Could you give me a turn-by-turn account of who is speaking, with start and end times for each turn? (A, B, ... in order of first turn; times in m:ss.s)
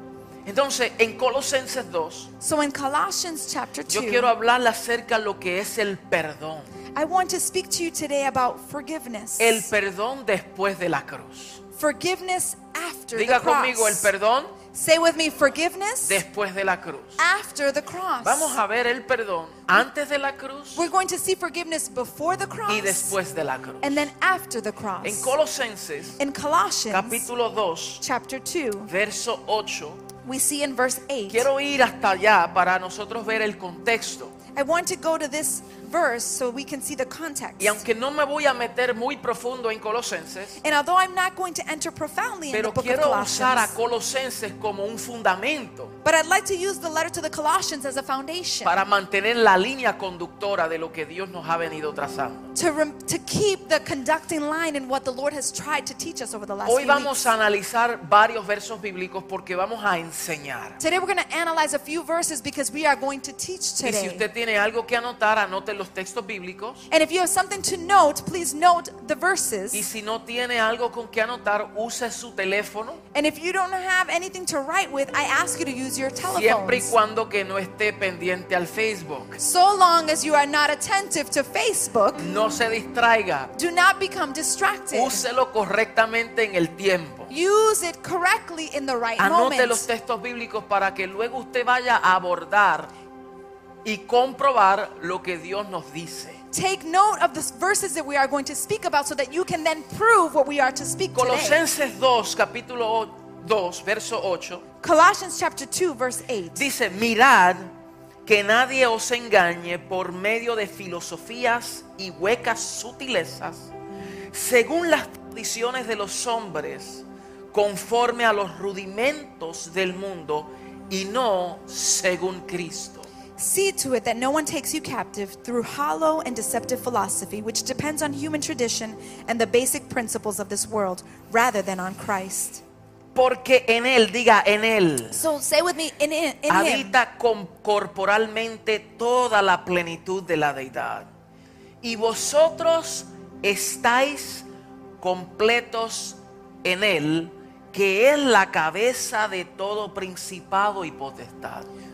0:00.4-0:02.3 A
0:02.4-0:04.3 B
0:03.9-0:06.7 A
0:07.0-0:09.7 B
0:09.4-0:11.6 A
0:11.8-0:14.1 B
0:13.1-0:14.6 A
0:14.7-0:16.2 B
0:16.0-0:17.2 A
0:17.2-0:18.6 B
0:18.2-0:20.9 A
0:20.8-0:23.2 B
0:22.7-0:24.1 A
0:23.8-0:25.4 B
0:25.0-0:26.2 A
0:26.2-0:27.3 B
0:26.9-0:28.0 A
0:28.0-0:28.9 B
0:28.9-0:30.0 A
0:30.2-0:31.5 B
0:31.3-0:34.3 A
0:34.5-0:37.8 B
0:37.6-0:40.6 A
0:40.6-0:43.7 B
0:42.5-0:45.9 A
0:46.0-0:48.8 B
0:48.6-0:52.5 A
0:52.6-0:57.3 B
0:56.7-1:00.8 A
1:00.8-1:04.3 B
1:03.8-1:06.9 A
1:06.9-1:09.9 B
1:09.7-1:13.0 A
1:13.1-1:17.0 B
1:16.3-1:19.4 A
1:19.4-1:22.2 B
1:22.2-1:23.5 A
1:23.6-1:25.2 B
1:24.9-1:27.3 A
1:27.3-1:29.9 B
1:29.2-1:32.9 A
1:33.8-1:36.4 A
1:36.5-1:41.6 B
1:41.2-1:44.6 A
1:44.8-1:46.7 B
1:46.6-1:47.7 A
1:48.3-1:53.7 A
1:54.3-2:03.1 A
2:03.4-2:12.6 B
2:13.2-2:15.2 A
2:15.1-2:17.0 B
2:16.5-2:21.1 A
2:21.8-2:24.5 A
2:25.0-2:31.7 A